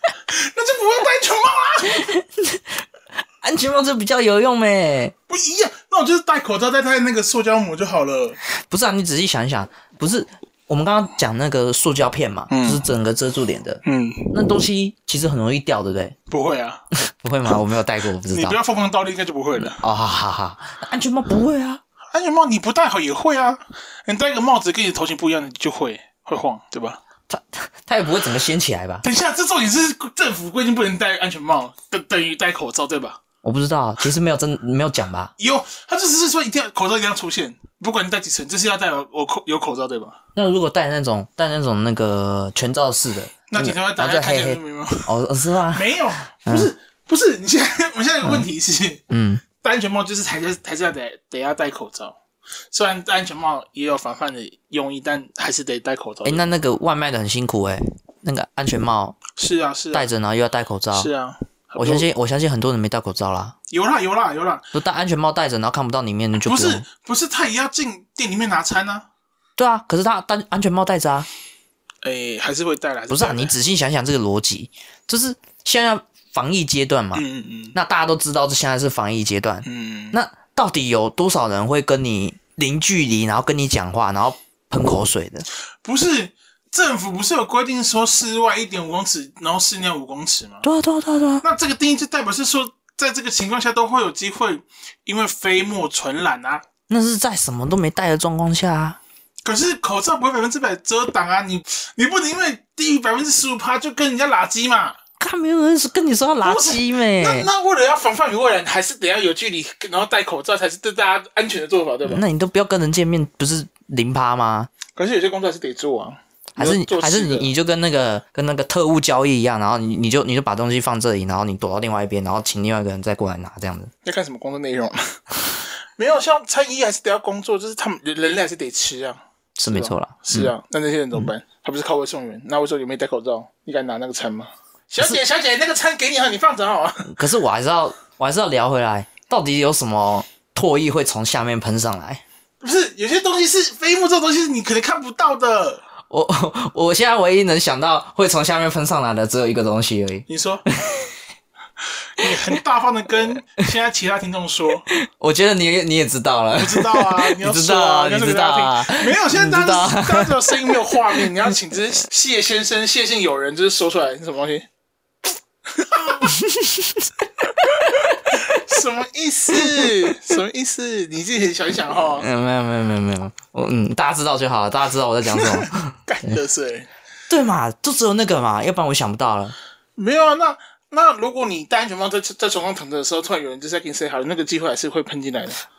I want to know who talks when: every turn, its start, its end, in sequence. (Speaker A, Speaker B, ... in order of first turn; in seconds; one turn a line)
Speaker A: 0.3-2.1
Speaker B: 1.9-2.8
Speaker B: 3.4-5.1
Speaker A: 5.3-8.4
Speaker B: 8.6-16.2
Speaker A: 12.5-12.9
Speaker A: 13.8-14.4
Speaker A: 16.3-16.9
Speaker B: 17.1-18.6
Speaker A: 18.3-19.8
Speaker B: 19.8-21.8
Speaker A: 22.1-27.0
Speaker B: 27.3-29.0
Speaker A: 29.0-33.2
Speaker B: 33.4-35.3
Speaker A: 35.4-40.2
Speaker B: 40.4-45.9
Speaker A: 43.5-45.1
Speaker A: 45.7-49.0
Speaker B: 46.5-46.7
Speaker B: 49.1-49.4
Speaker A: 49.6-52.2
Speaker A: 52.7-56.5
Speaker B: 56.2-59.2
Speaker A: 59.4-60.1
Speaker B: 59.9-61.1
Speaker A: 60.9-62.1
Speaker B: 61.8-63.5
Speaker A: 63.7-64.7
Speaker B: 64.7-66.8
Speaker A: 66.5-69.1
Speaker B: 69.6-71.3
Speaker A: 72.0-73.5
Speaker B: 73.1-85.5
Speaker A: 77.1-77.8
Speaker A: 79.7-80.2
Speaker A: 85.8-90.7
Speaker B: 90.6-91.4
Speaker A: 91.4-96.7
Speaker B: 96.9-99.0
Speaker A: 99.5-105.0
Speaker B: 105.2-107.5
Speaker A: 106.4-112.2
Speaker B: 112.0-114.7
Speaker A: 115.0-117.5
Speaker B: 116.6-123.9
Speaker A: 124.0-137.2
Speaker B: 129.6-130.5
Speaker B: 137.1-142.2
Speaker A: 142.6-145.8
Speaker B: 146.1-151.1
Speaker A: 150.3-150.7
Speaker A: 152.2-154.9
Speaker B: 154.9-161.2
Speaker A: 156.5-164.7
Speaker A: 165.7-166.3
Speaker B: 166.2-168.5
Speaker A: 167.9-172.3
Speaker B: 169.5-169.9
Speaker B: 172.2-175.9
Speaker A: 175.3-176.9
Speaker B: 177.3-179.6
Speaker A: 180.0-185.6